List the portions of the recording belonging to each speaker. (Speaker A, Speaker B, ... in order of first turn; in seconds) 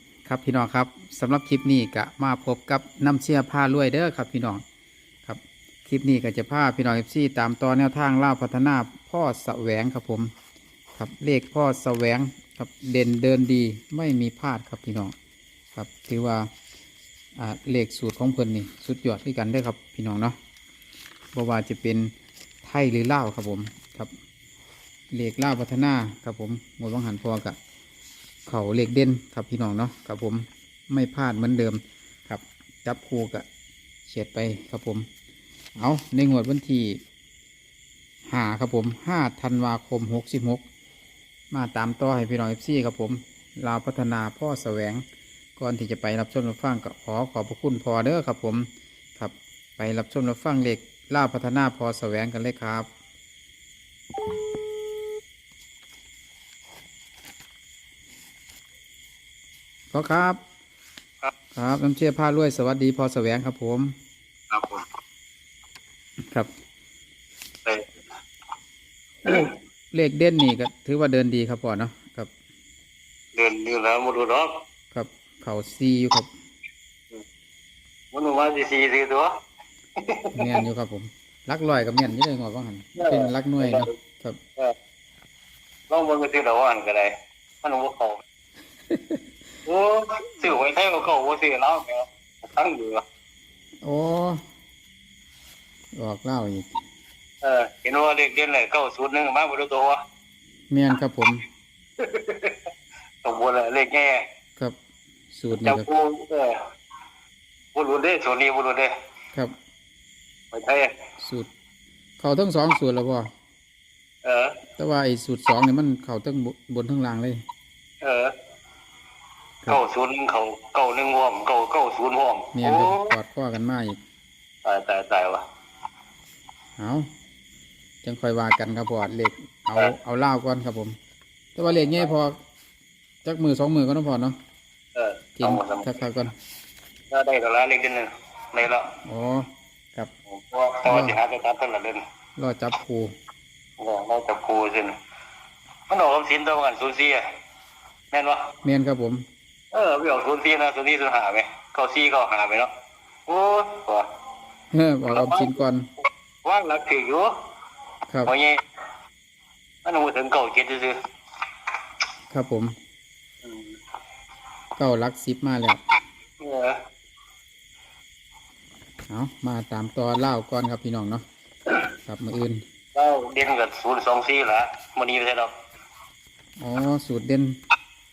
Speaker A: 0.2-4.6, 5.3-10.3, 11.0-15.2, 15.8-16.5, 17.4-20.4, 21.3-24.1, 25.1-27.6, 28.5-33.5, 34.1-35.1, 35.8-37.0, 38.3-40.6, 41.5-45.0, 45.6-52.9, 59.9-60.4, 61.5-64.0, 66.2-66.5, 69.2-72.3, 74.9-76.3, 80.4-84.4, 93.8-94.4, 96.0-96.8, 100.7-101.4, 105.3-105.9, 111.2-111.5, 112.2-113.3, 114.8-117.4, 122.5-124.0, 126.8-127.1, 128.0-130.9, 131.6-132.4, 133.2-134.4, 135.4-136.3, 139.0-140.1, 140.9-141.2, 142.4-143.1, 148.6-149.3, 154.7-155.9, 162.3-162.8, 164.8-165.8, 169.1-171.2, 172.1-172.6, 176.6-177.6
Speaker B: 64.5-64.8, 73.3-74.6, 78.1-79.3, 80.0-80.4, 83.0-83.9, 85.9-88.2, 89.7-93.0, 97.4-100.0, 102.0-102.6, 103.2-104.2, 105.5-106.6, 107.8-108.9, 110.5-110.9, 114.2-114.5, 118.0-118.3, 119.7-123.1, 124.7-125.4, 134.9-135.9, 137.1-138.9, 140.3-142.0, 143.8-145.0, 145.9-147.2, 148.1-148.5, 149.7-152.7, 153.3-154.1, 155.1-155.6, 156.4-157.3, 158.2-158.6, 159.8-161.0, 163.4-163.8, 166.4-166.8, 172.9-175.5